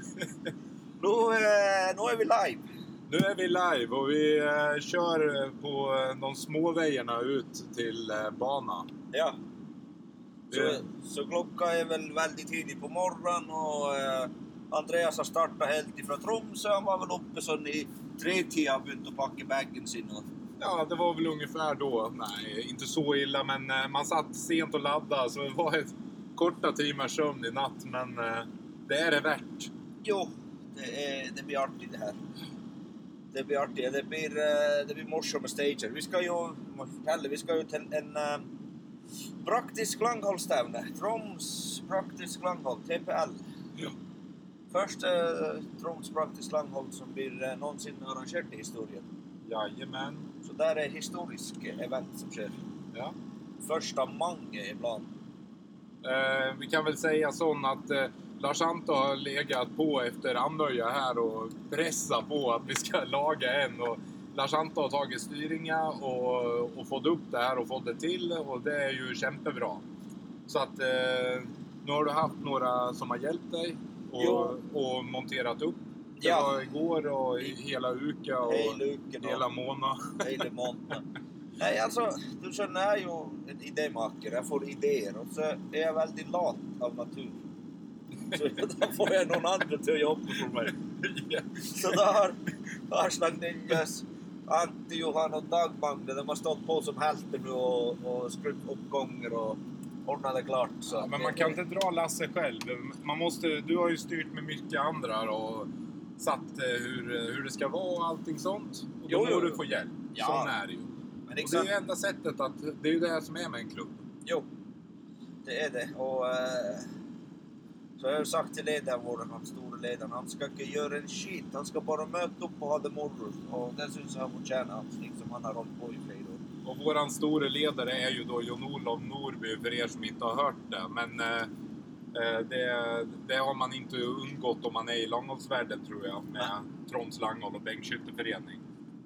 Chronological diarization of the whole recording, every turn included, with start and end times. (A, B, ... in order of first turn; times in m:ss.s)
0:01.0-0:02.6 A
0:03.1-0:08.9 B
0:09.1-0:09.4 A
0:10.5-0:10.8 B
0:10.5-0:20.2 A
0:20.6-0:29.7 B
0:30.0-0:32.2 A
0:33.3-0:38.5 A
0:39.4-0:43.4 A
0:44.7-0:49.0 A
0:49.4-0:50.3 B
0:50.4-0:52.5 A
0:53.6-0:55.1 A
0:56.0-1:09.8 B
1:10.5-1:20.4 B
1:14.2-1:14.6 A
1:16.2-1:16.5 A
1:18.4-1:19.4 A
1:20.2-1:21.0 A
1:21.6-1:27.4 A
1:28.3-1:30.8 A
1:30.9-1:32.0 B
1:31.7-1:41.6 A
1:40.9-1:54.0 B
1:49.1-1:50.5 A
1:51.3-1:51.7 A
1:55.4-1:56.9 A
1:58.0-2:06.4 A
2:06.6-2:11.5 B
2:12.1-2:18.6 B